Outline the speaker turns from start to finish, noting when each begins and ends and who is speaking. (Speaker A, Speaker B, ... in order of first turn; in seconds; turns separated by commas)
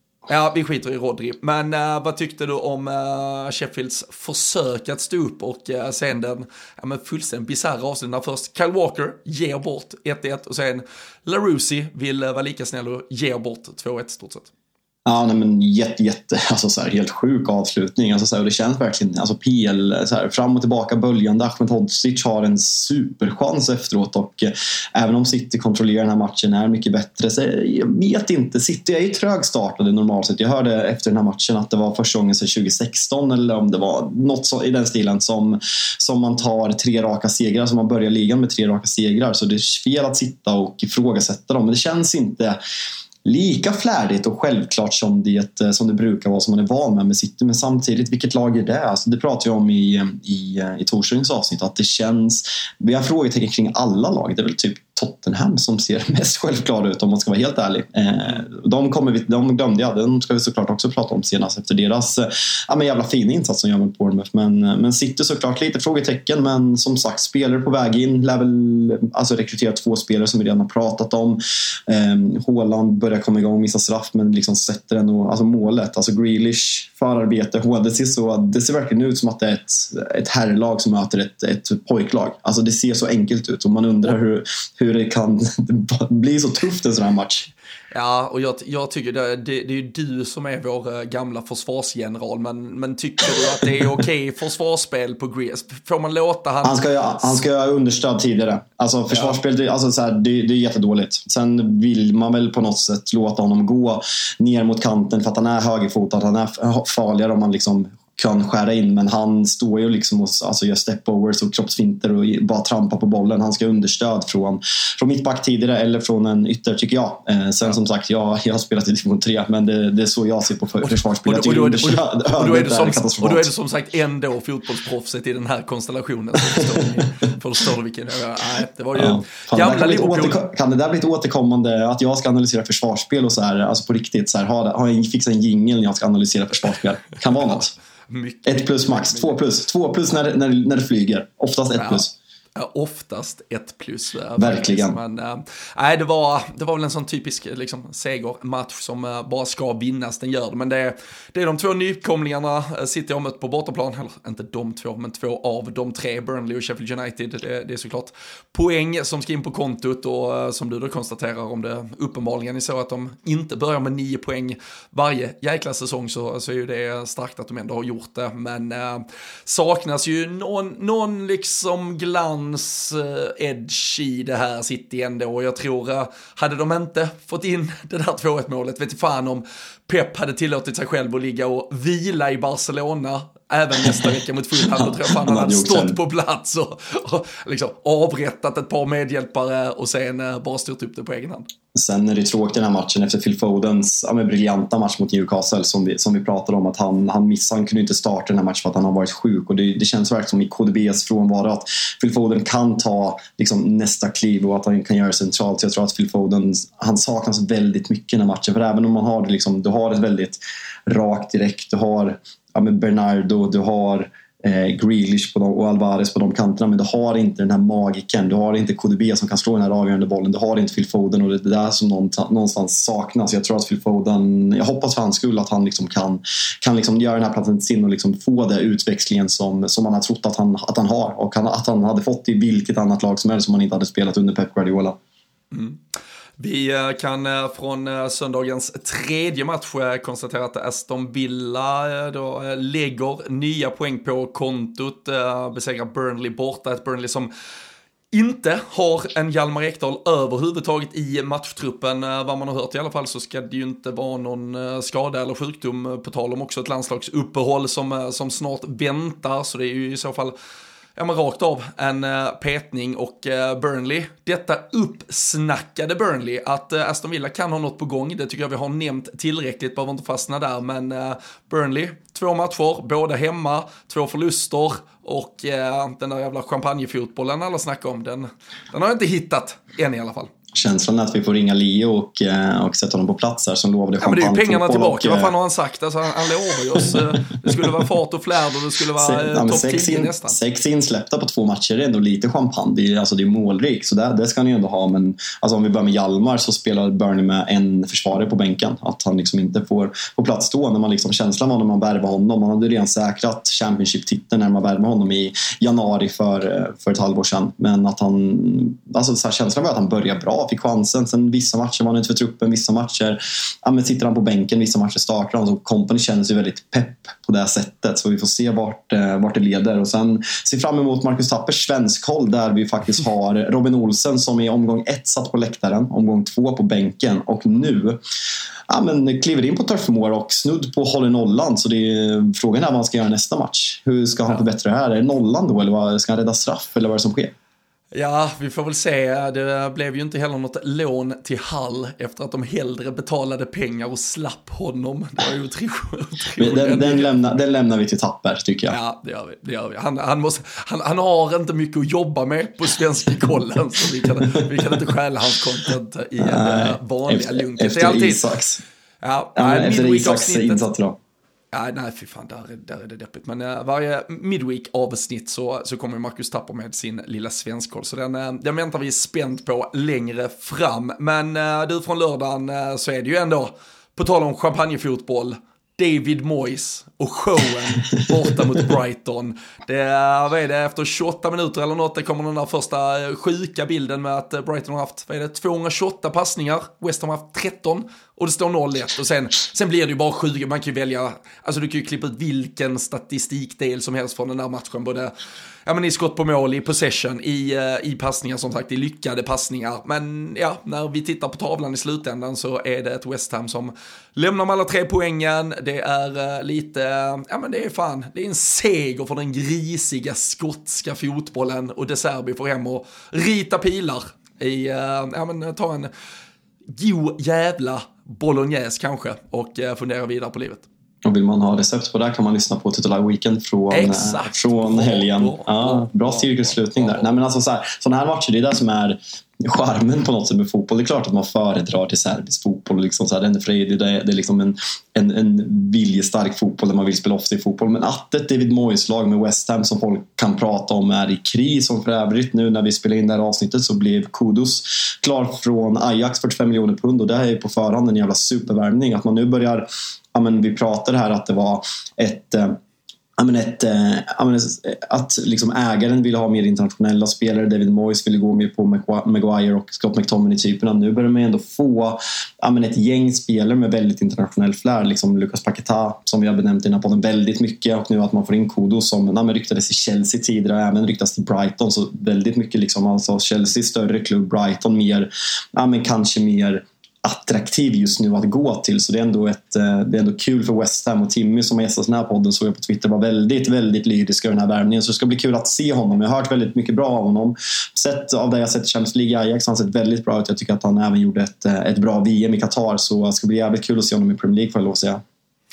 Speaker A: 0.3-14.5, Speaker B: 15.1-42.6, Speaker B: 43.2-87.5, Speaker A: 87.9-97.4, Speaker B: 93.3-93.6, Speaker B: 96.6-123.5, Speaker A: 99.1-99.3, Speaker A: 120.8-130.4, Speaker B: 128.9-137.7, Speaker A: 137.3-139.4, Speaker B: 138.4-142.1, Speaker A: 141.8-191.5, Speaker B: 144.4-145.0, Speaker B: 183.8-186.0, Speaker B: 191.7-234.9, Speaker A: 235.5-235.8, Speaker A: 236.4-247.3, Speaker A: 248.1-260.3, Speaker A: 260.9-280.3, Speaker B: 280.5-285.3, Speaker A: 284.0-290.4, Speaker B: 286.8-287.8, Speaker B: 289.0-328.0, Speaker B: 328.7-337.3, Speaker A: 337.9-347.1, Speaker B: 346.4-348.8, Speaker A: 348.7-358.2, Speaker B: 356.2-358.6, Speaker A: 359.0-360.6, Speaker B: 359.4-361.0, Speaker A: 361.5-395.1, Speaker A: 395.6-415.9, Speaker A: 416.8-420.6, Speaker B: 421.0-452.6, Speaker A: 423.7-427.1, Speaker B: 453.2-495.0